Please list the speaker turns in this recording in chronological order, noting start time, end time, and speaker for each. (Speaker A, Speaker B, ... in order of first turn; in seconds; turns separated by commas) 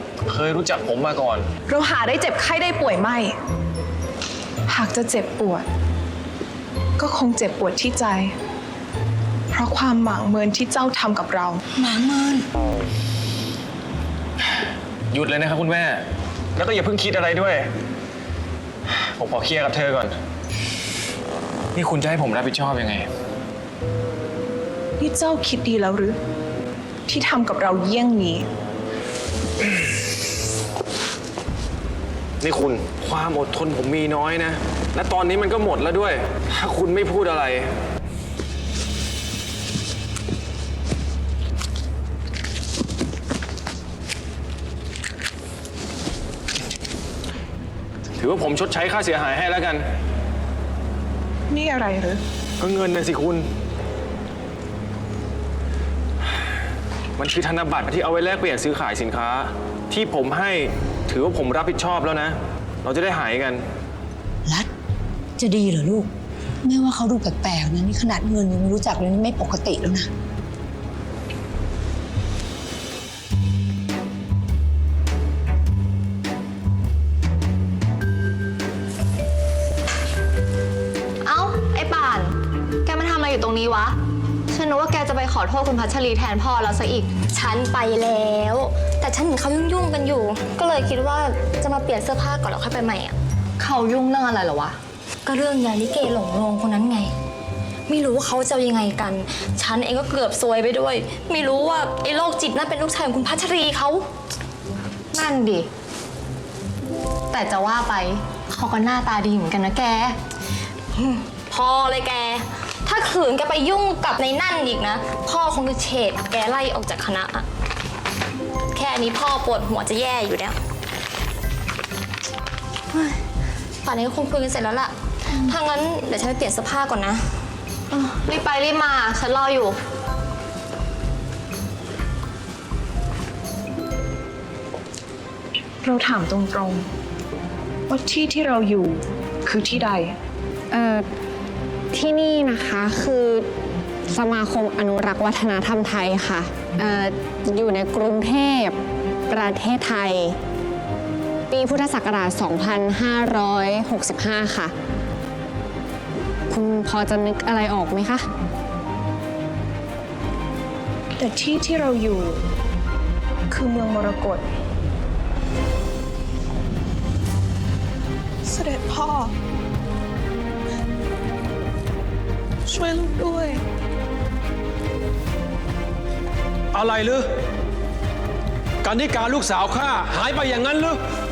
Speaker A: 0.3-1.5, Speaker B: 1.7-3.3, Speaker B: 4.7-5.6, Speaker B: 7.0-8.3, Speaker B: 9.5-11.6, Speaker C: 11.8-12.4, Speaker A: 15.1-16.0, Speaker A: 16.6-17.7, Speaker A: 18.9-20.1, Speaker A: 21.7-23.1, Speaker B: 25.0-26.2, Speaker B: 27.1-28.4, Speaker A: 32.4-37.7, Speaker A: 48.2-49.8, Speaker B: 51.5-52.2, Speaker A: 52.6-53.5, Speaker A: 57.2-63.6, Speaker D: 65.4-66.1, Speaker D: 66.6-70.1, Speaker C: 81.2-84.0, Speaker C: 84.5-97.1, Speaker C: 97.9-104.0, Speaker C: 105.1-105.7, Speaker C: 107.3-110.2, Speaker C: 110.9-117.4, Speaker C: 118.7-120.6, Speaker C: 122.9-123.2, Speaker C: 123.8-127.3, Speaker C: 127.9-129.8, Speaker B: 135.8-136.9, Speaker B: 137.9-140.1, Speaker E: 140.7-141.1, Speaker E: 141.9-143.5, Speaker E: 144.1-148.8, Speaker E: 149.3-150.3, Speaker E: 151.5-154.7, Speaker E: 156.5-158.2, Speaker B: 161.2-162.5, Speaker B: 163.5-164.4, Speaker B: 168.5-169.3, Speaker B: 172.7-173.6, Speaker F: 176.7-177.2, Speaker F: 178.8-180.9